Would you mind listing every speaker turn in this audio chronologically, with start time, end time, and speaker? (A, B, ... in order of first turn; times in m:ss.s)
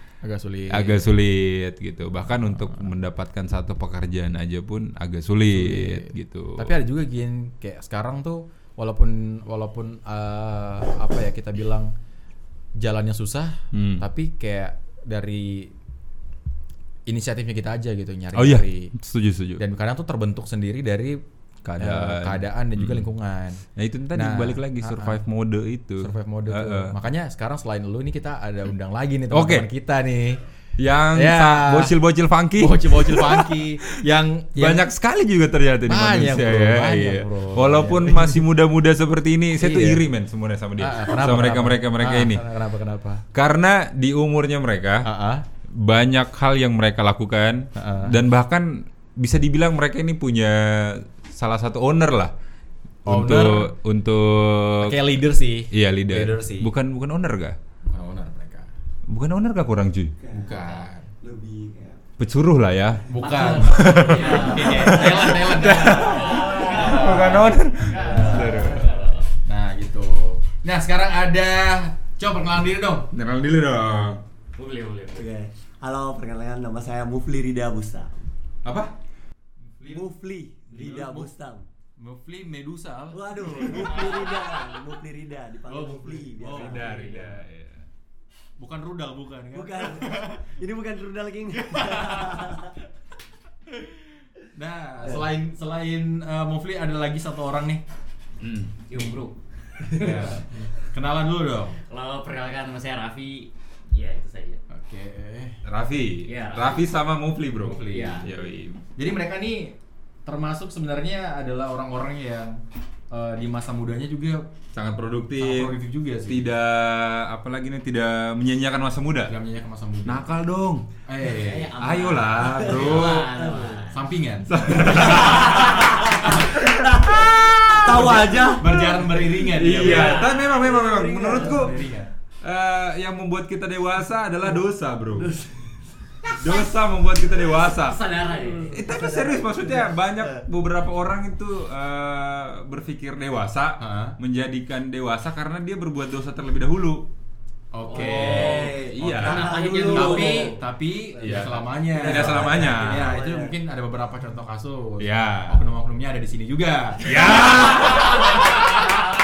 0:00.2-0:01.1 A
0:00.7-0:06.8 B
0:02.5-0:02.9 A
0:05.5-0:11.9 A
0:12.8-0:15.7 A
0:13.7-0:14.1 B
0:17.1-0:18.9 A
0:18.4-0:19.6 B
0:19.6-0:21.2 A
0:21.6-0:23.1 B
0:21.8-0:25.2 A
0:23.7-0:27.0 B
0:26.0-0:30.4 A
0:29.3-0:29.7 B
0:30.8-0:34.0 B
0:31.1-0:32.0 A
0:32.6-0:34.9 A
0:34.6-0:42.5 B
0:35.9-0:38.4 A
0:39.6-0:40.0 A
0:40.8-0:43.2 A
0:43.3-0:45.1 B
0:45.0-0:45.4 A
0:45.7-0:52.3 B
0:47.8-0:48.2 A
0:53.1-0:53.7 A
0:53.1-0:55.2 B
0:54.8-0:56.7 A
0:55.7-0:57.6 B
0:57.8-0:58.7 A
0:59.1-1:00.2 B
1:00.2-1:02.0 C
1:00.3-1:01.1 A
1:02.2-1:09.0 B
1:03.1-1:08.8 A
1:03.2-1:07.2 D
1:04.2-1:04.8 C
1:05.9-1:09.1 C
1:08.1-1:09.2 D
1:09.4-1:13.1 A
1:13.1-1:14.2 B
1:14.6-1:15.3 D
1:15.2-1:18.2 C
1:18.6-1:18.9 B
1:19.8-1:20.1 A
1:19.9-1:21.7 C
1:20.7-1:21.3 A
1:22.0-1:24.4 A
1:23.1-1:27.3 C
1:23.8-1:24.2 D
1:25.7-1:27.0 A
1:26.5-1:27.9 B
1:26.8-1:27.4 D
1:28.6-1:30.4 A
1:29.5-1:32.7 C
1:31.6-1:32.7 A
1:34.5-1:37.8 A
1:38.4-1:38.8 B
1:38.9-1:40.6 D
1:39.8-1:40.3 C
1:39.9-1:41.8 A
1:41.9-1:44.6 D
1:44.7-1:45.6 A
1:45.6-1:48.8 B
1:46.2-1:46.9 D
1:47.6-1:48.3 A
1:47.9-1:48.3 D
1:49.0-1:54.5 A
1:54.7-1:59.4 B
1:55.4-1:56.5 A
1:59.3-2:00.3 A
2:00.0-2:00.9 B
2:01.1-2:01.8 A
2:01.3-2:04.0 D
2:01.8-2:03.3 B
2:02.5-2:03.9 C
2:03.9-2:06.6 A
2:04.5-2:11.8 B
2:05.2-2:08.8 C
2:07.7-2:10.3 A
2:09.8-2:10.5 D
2:09.8-2:11.9 C
2:11.4-2:12.1 A
2:12.4-2:15.4 B
2:15.2-2:15.5 C
2:16.3-2:18.0 B
2:17.6-2:18.8 D
2:18.4-2:20.4 C
2:18.7-2:27.1 B
2:23.8-2:24.2 A
2:27.7-2:38.7 A
2:27.9-2:30.6 C
2:27.9-2:30.6 D
2:27.9-2:29.6 B
2:31.2-2:33.2 B
2:31.2-2:33.6 C
2:35.0-2:35.6 B
2:37.0-2:38.8 B